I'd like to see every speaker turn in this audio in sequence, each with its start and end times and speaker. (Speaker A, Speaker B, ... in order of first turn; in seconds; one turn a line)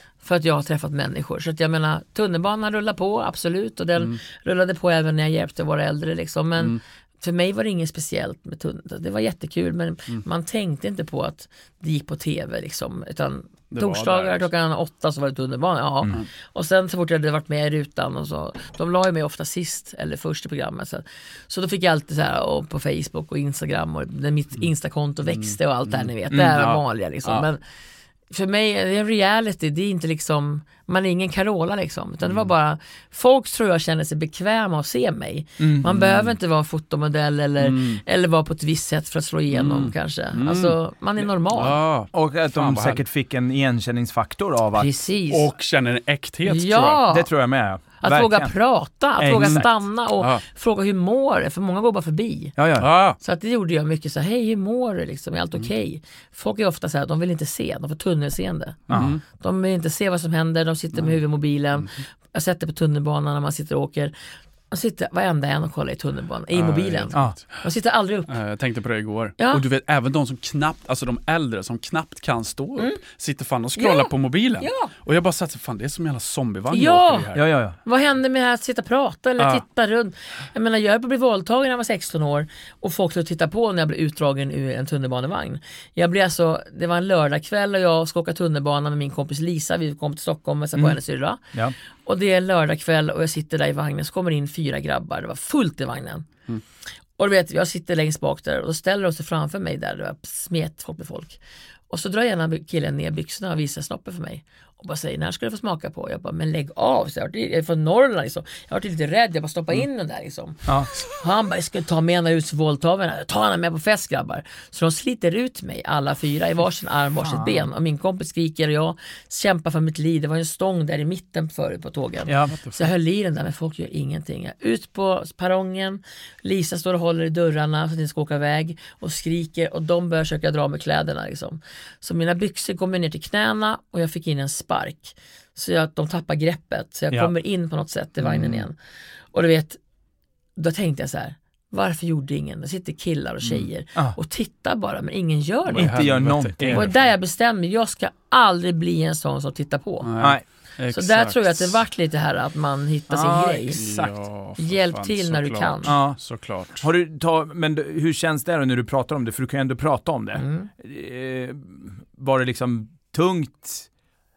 Speaker A: 0.2-27.6
Speaker B: 13.7-14.5
Speaker B: 25.3-27.5
Speaker A: 28.3-41.8
Speaker C: 35.6-35.9
Speaker B: 36.0-36.3
Speaker B: 37.6-38.0
Speaker B: 39.5-43.0
Speaker C: 42.1-44.9
Speaker A: 44.8-45.5
Speaker B: 45.3-47.0
Speaker A: 46.5-47.3
Speaker C: 47.1-48.5
Speaker A: 48.0-52.5
Speaker C: 49.2-49.7
Speaker B: 49.4-50.4
Speaker C: 52.6-52.9
Speaker B: 52.8-53.2
Speaker A: 53.2-64.1
Speaker C: 58.9-59.2
Speaker B: 58.9-59.2
Speaker A: 64.7-68.3
Speaker B: 66.5-67.6
Speaker B: 68.3-77.5
Speaker A: 73.8-74.9
Speaker A: 76.7-77.3
Speaker C: 77.3-77.8
Speaker A: 77.8-91.4
Speaker A: 92.0-96.4
Speaker A: 97.2-138.8
Speaker C: 117.2-117.7
Speaker C: 122.3-122.5
Speaker B: 122.5-122.8
Speaker B: 138.2-138.7
Speaker A: 139.3-139.8
Speaker A: 140.6-150.1
Speaker B: 145.7-147.1
Speaker C: 145.7-146.9
Speaker B: 150.0-151.8
Speaker A: 150.9-153.8
Speaker C: 153.1-154.2
Speaker B: 153.7-156.9
Speaker A: 154.6-155.9
Speaker C: 155.9-156.2
Speaker C: 156.8-163.9
Speaker A: 160.4-160.7